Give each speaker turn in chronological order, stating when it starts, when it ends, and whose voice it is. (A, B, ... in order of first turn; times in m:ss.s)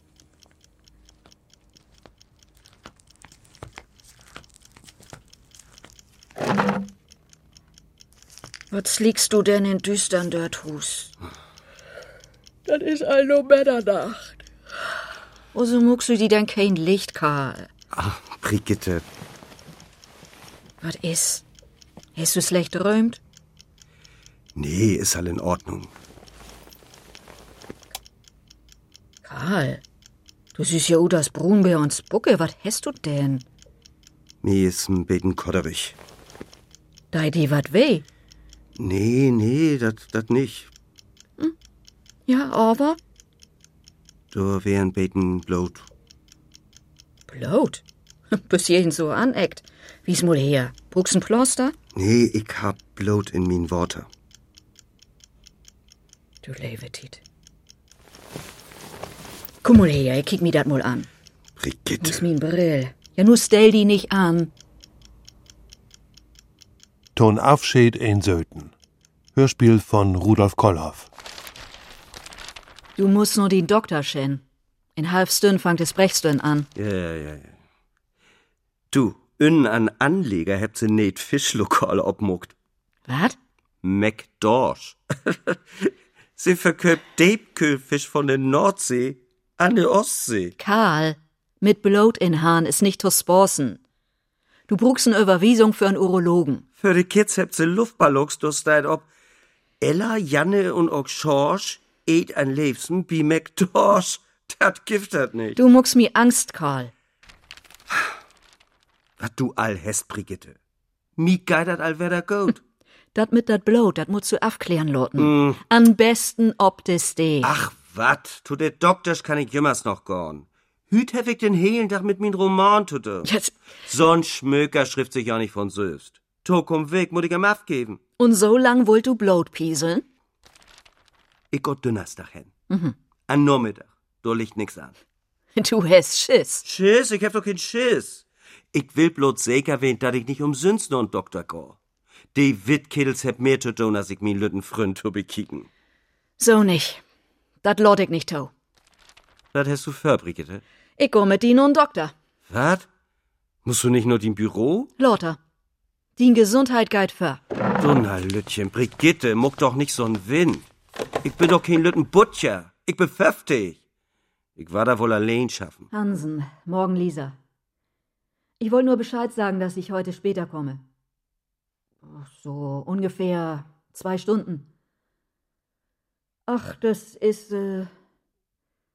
0:08.7-0:11.1 A
0:12.7-0:14.4 A
0:15.5-0:17.7 A
0:17.9-0:19.0 B
0:20.8-0:21.4 A
0:22.2-0:23.2 A
0:24.6-0:25.9 B
0:29.2-0:29.8 A
0:30.6-0:33.4 A
0:34.4-0:36.0 B
0:37.1-0:38.0 A
0:38.8-0:40.7 B
0:42.3-0:43.0 A
0:44.3-0:45.9 B
0:47.3-0:47.8 A
0:48.3-0:51.8 A
0:52.0-0:54.1 B
0:56.4-0:57.2 A
0:59.6-1:01.1 A
1:01.6-1:02.2 B
1:02.0-1:04.5 A
1:07.2-1:08.7 C
1:09.4-1:11.1 C
1:13.0-1:14.4 A
1:15.0-1:16.7 A
1:16.8-1:17.6 B
1:18.9-1:22.5 B
1:23.1-1:23.4 A
1:23.8-1:30.6 B
1:30.6-1:33.8 A
1:34.7-1:36.6 A
1:36.8-1:39.1 B
1:39.8-1:45.6 B
1:45.6-1:46.9 A
1:49.2-1:50.6 B
1:51.2-1:52.6 B
1:53.1-1:57.5 A
1:55.2-1:55.6 B
1:57.4-2:03.3 B
2:03.2-2:03.5 A
2:03.9-2:08.0 B
2:08.2-2:10.1 A
2:11.5-2:12.5 B
2:12.7-2:13.0 A
2:13.3-2:14.9 B
2:15.6-2:16.6 A
2:16.6-2:21.8 B
2:22.3-2:25.7 B
2:26.4-2:27.0 A
2:27.6-2:28.5 A
2:29.5-2:30.6 B
2:31.0-2:32.1 A
2:32.5-2:32.8 B
2:33.6-2:34.9 B
2:35.0-2:35.4 A
2:36.2-2:37.4 A
2:37.8-2:40.7 B
2:41.2-2:43.8 B
2:44.6-2:45.9 B
2:45.9-2:47.4 A
2:48.6-2:50.8 A
2:52.0-2:54.7 A
2:56.5-2:57.9 A